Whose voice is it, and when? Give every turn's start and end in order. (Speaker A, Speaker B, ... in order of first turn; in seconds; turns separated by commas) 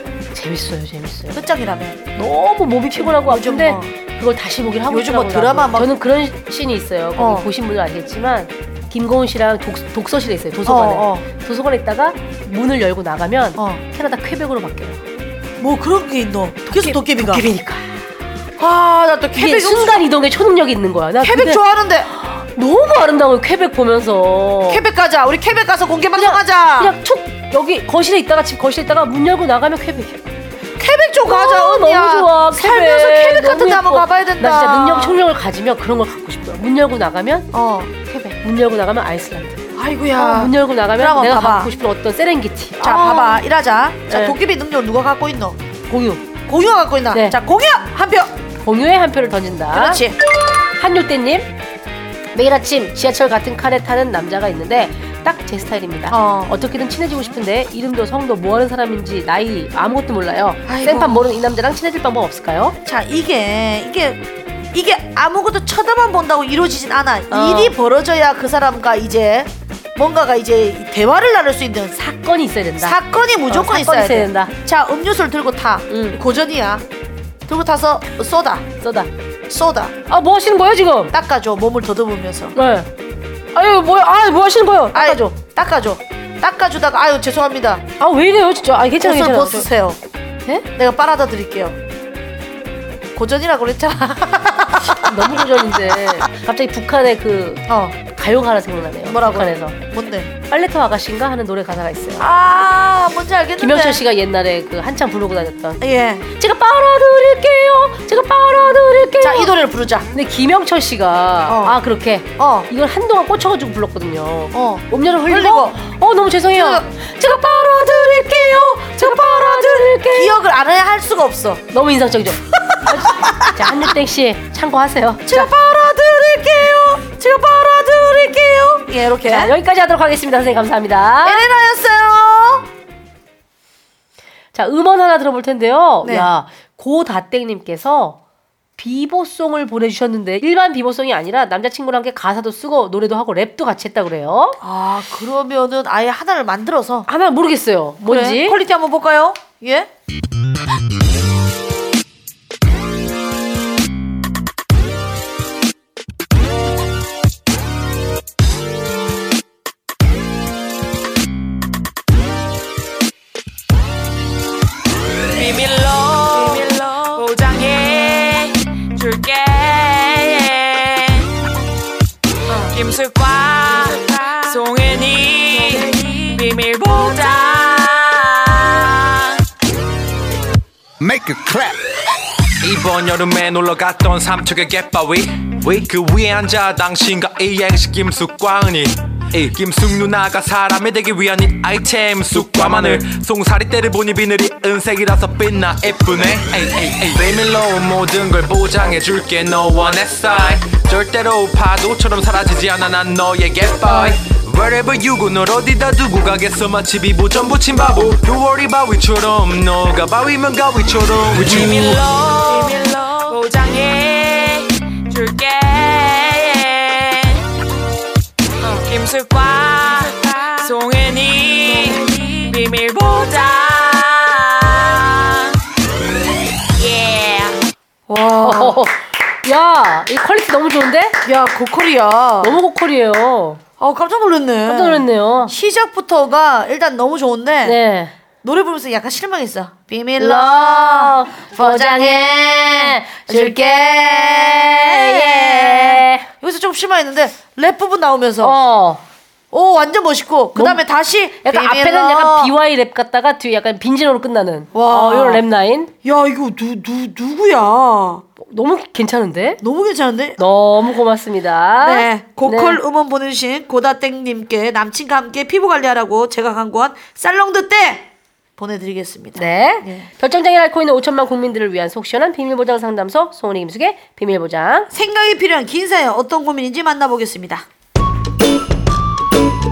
Speaker A: 0.3-1.4, Speaker B: 1.3-2.0, Speaker A: 2.1-15.0, Speaker B: 3.0-3.9, Speaker B: 4.9-5.9, Speaker B: 7.2-7.5, Speaker B: 10.7-11.2, Speaker B: 13.6-13.8, Speaker B: 15.6-17.5, Speaker A: 16.7-17.9, Speaker B: 18.6-20.1, Speaker A: 19.4-21.6, Speaker B: 21.2-22.1, Speaker A: 22.1-24.8, Speaker B: 24.7-26.9, Speaker A: 26.1-30.2, Speaker B: 30.8-35.2, Speaker A: 31.2-37.5, Speaker B: 37.5-37.9, Speaker A: 38.0-39.6, Speaker B: 39.7-41.7, Speaker A: 40.1-43.4, Speaker B: 42.8-45.6, Speaker A: 44.1-44.4, Speaker A: 45.9-46.2, Speaker B: 46.5-48.4, Speaker A: 48.6-50.0, Speaker B: 49.7-50.2, Speaker A: 50.8-51.5, Speaker A: 52.3-62.8, Speaker B: 56.1-56.5, Speaker B: 60.7-61.4, Speaker B: 62.8-72.1, Speaker A: 67.3-67.7, Speaker A: 72.0-73.0, Speaker B: 72.8-76.8, Speaker A: 73.5-74.5, Speaker A: 75.9-76.2, Speaker B: 77.5-78.7, Speaker A: 78.8-79.1, Speaker B: 79.5-79.9, Speaker A: 80.1-81.1, Speaker B: 81.1-82.5, Speaker A: 82.5-82.9, Speaker A: 83.5-85.3, Speaker B: 84.9-87.8, Speaker A: 88.0-89.7, Speaker B: 89.0-90.0, Speaker B: 90.7-91.8, Speaker B: 93.1-95.4, Speaker A: 94.9-99.8, Speaker B: 97.7-98.0, Speaker B: 99.0-100.3, Speaker A: 100.5-102.3, Speaker B: 102.2-104.0, Speaker A: 103.6-105.8, Speaker B: 105.8-106.3, Speaker A: 106.4-109.5, Speaker B: 109.2-110.1, Speaker A: 110.1-120.4, Speaker B: 111.5-111.8, Speaker B: 112.4-112.7, Speaker B: 114.5-115.8, Speaker B: 116.5-121.6, Speaker A: 121.7-125.5, Speaker B: 122.5-123.9, Speaker B: 125.2-129.5, Speaker A: 129.2-131.4, Speaker B: 131.2-132.7, Speaker A: 134.5-138.2, Speaker B: 136.0-136.3, Speaker A: 138.8-144.6, Speaker B: 144.6-147.1, Speaker A: 147.1-148.6, Speaker B: 148.0-149.9, Speaker C: 165.3-171.3, Speaker B: 172.5-172.7, Speaker C: 172.7-179.4, Speaker D: 182.6-212.0, Speaker C: 211.4-217.4, Speaker C: 218.6-225.6, Speaker C: 226.7-227.6, Speaker B: 228.1-228.8, Speaker A: 228.4-231.2, Speaker B: 231.2-232.6, Speaker A: 232.4-233.6, Speaker B: 233.8-237.8, Speaker A: 234.7-235.5, Speaker A: 237.6-238.2, Speaker B: 238.4-248.6, Speaker A: 240.2-246.3, Speaker A: 248.4-249.0, Speaker B: 249.5-252.5, Speaker A: 250.5-250.8, Speaker A: 251.4-255.9, Speaker B: 254.7-255.4, Speaker B: 256.0-258.2, Speaker A: 258.4-259.6, Speaker B: 259.6-260.4, Speaker A: 260.4-262.8, Speaker B: 261.8-270.1, Speaker A: 269.4-274.9, Speaker B: 274.9-277.6